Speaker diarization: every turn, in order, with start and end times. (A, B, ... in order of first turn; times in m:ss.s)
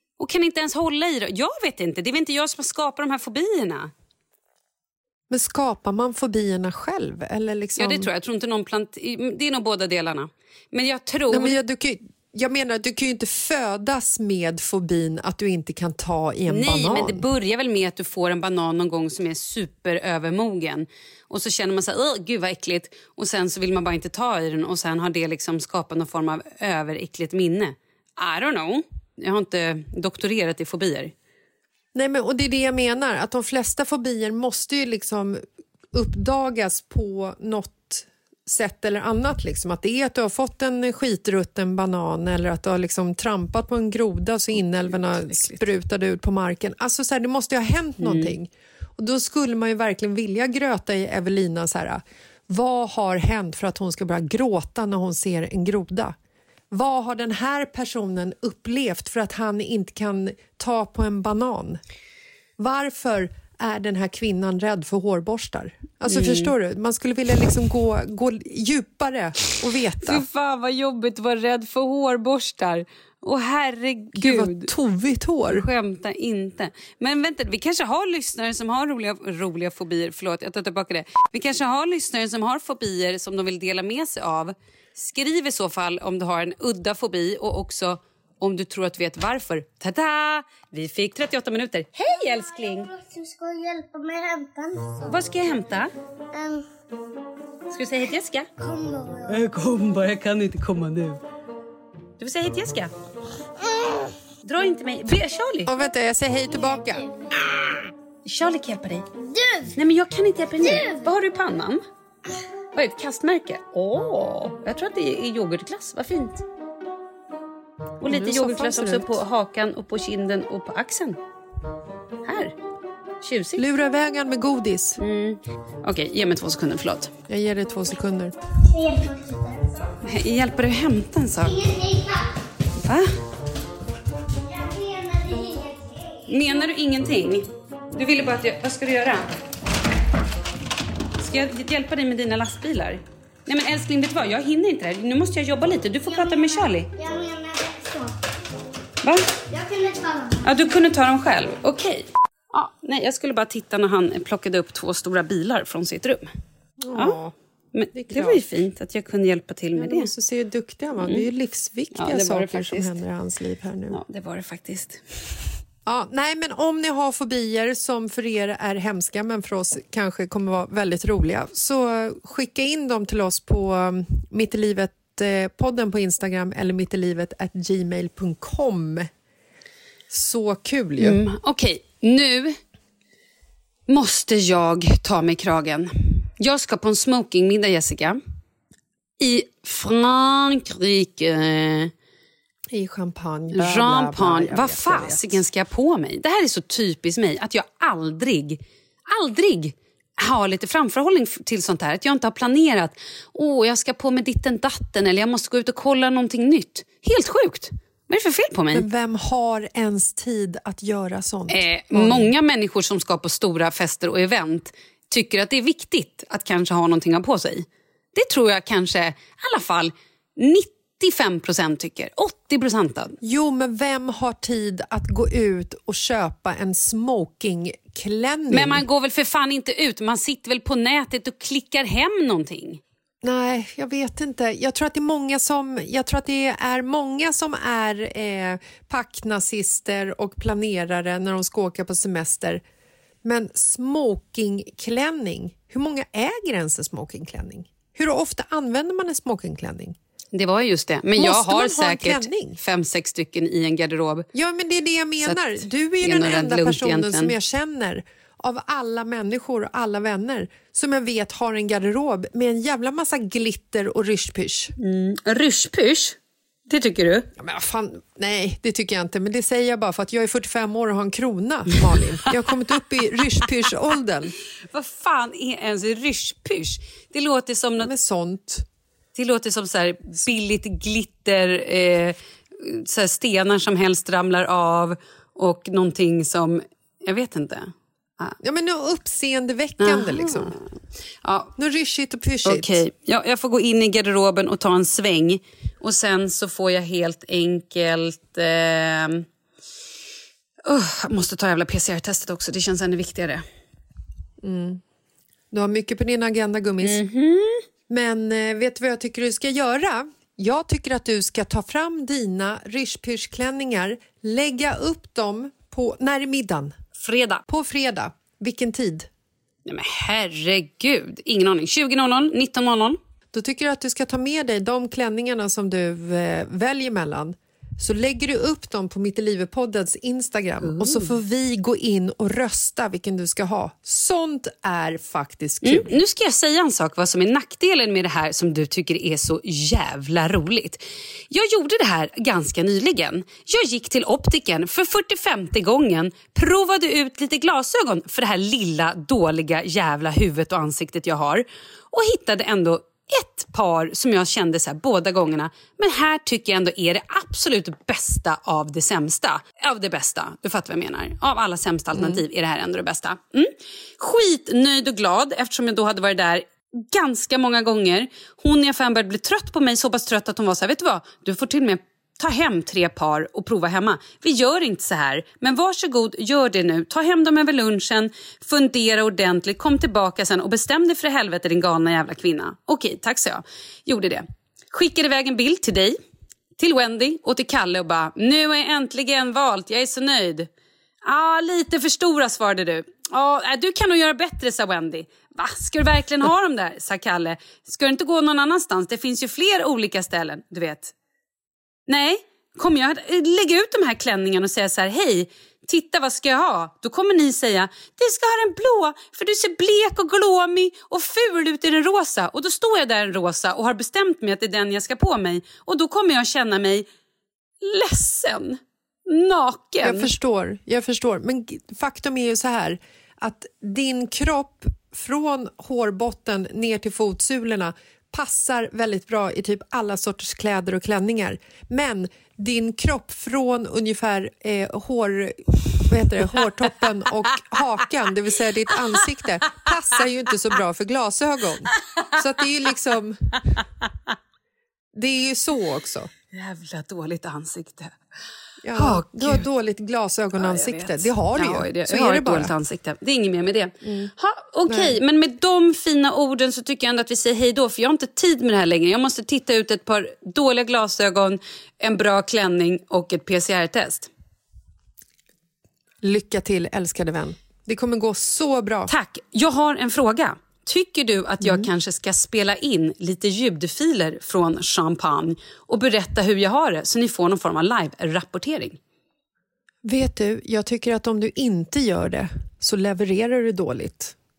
0:00.2-0:03.9 A
0:05.3-0:08.1 B
0:07.8-0:11.6 A
0:11.3-0:17.2 B
0:16.5-0:31.1 A
0:31.9-0:56.2 B
0:44.5-0:45.6 A
0:48.0-0:48.4 A
0:56.7-1:01.8 B
1:02.6-1:10.2 B
1:06.1-1:06.5 A
1:10.0-1:14.7 A
1:14.1-1:15.7 B
1:15.5-1:32.9 A
1:32.0-1:35.2 C
1:35.1-1:35.9 A
1:36.3-1:36.6 C
1:37.7-1:38.5 A
1:38.6-1:39.4 C
1:39.3-1:41.2 A
1:42.2-1:42.9 A
1:44.4-1:45.7 A
1:45.6-1:47.0 B
1:46.6-1:47.0 C
1:48.2-1:49.0 A
1:49.2-1:49.7 C
1:49.8-1:51.8 A
1:50.6-1:51.1 C
1:52.7-1:56.4 A
1:58.0-2:01.2 A
1:58.0-1:59.2 B
2:02.2-2:02.5 A
2:03.2-2:03.6 A
2:03.6-2:05.0 B
2:05.0-2:07.1 A
2:07.3-2:08.3 B
2:08.6-2:09.8 C
2:10.0-2:11.6 A
2:11.4-2:12.3 C
2:12.8-2:13.1 A
2:14.4-2:16.2 C
2:16.3-2:19.3 A
2:21.2-2:26.9 A
2:26.0-2:28.1 C
2:29.5-2:30.8 C
2:30.4-2:36.3 A
2:36.8-2:37.3 B
2:37.7-2:40.1 A
2:37.9-2:38.4 B
2:39.7-2:44.0 B
2:41.0-2:41.3 A
2:41.9-2:43.0 A
2:43.9-2:45.5 A
2:45.8-2:59.1 B
3:00.1-3:01.2 B
3:01.0-3:02.6 A
3:03.9-3:08.2 A
3:09.2-3:11.9 A
3:12.7-3:15.4 B
3:13.5-3:28.8 A
3:28.7-3:32.3 B
3:31.5-3:43.2 A
3:43.2-3:48.8 B
3:48.5-3:52.8 A
3:53.2-4:02.6 B
4:03.2-4:10.0 B
4:10.3-4:14.3 A
4:11.2-4:12.6 B
4:14.3-4:24.7 B
4:15.2-4:17.3 A
4:24.8-4:27.3 A
4:27.4-4:34.3 B
4:34.7-4:37.9 A
4:37.8-4:38.6 B
4:39.1-4:48.4 A
4:48.4-4:50.6 B
4:49.8-4:51.5 A
4:51.6-4:52.8 B
4:52.4-4:59.2 A
5:00.6-5:03.4 A
5:04.4-5:04.8 B
5:05.5-5:07.0 B
5:06.8-5:07.6 A
5:07.9-5:16.8 B
5:17.0-5:17.4 A
5:17.5-5:19.1 B
5:19.6-5:23.0 A
5:23.3-5:36.0 B
5:30.6-5:31.2 A
5:35.6-6:26.0 A
6:01.9-6:02.2 B
6:26.6-6:30.5 A
6:31.0-6:40.9 A
6:41.9-6:56.8 A
6:57.6-7:00.1 A
6:59.8-7:23.4 B
7:18.7-7:19.0 A
7:24.9-7:26.1 B
7:26.3-7:28.0 A
7:28.6-7:32.5 B
7:28.7-7:29.5 A
7:30.4-7:44.1 A
7:33.8-7:34.1 B
7:34.6-7:35.0 B
7:46.0-7:48.9 B
7:48.9-7:58.8 A
7:51.4-7:51.7 B
7:59.8-8:04.1 B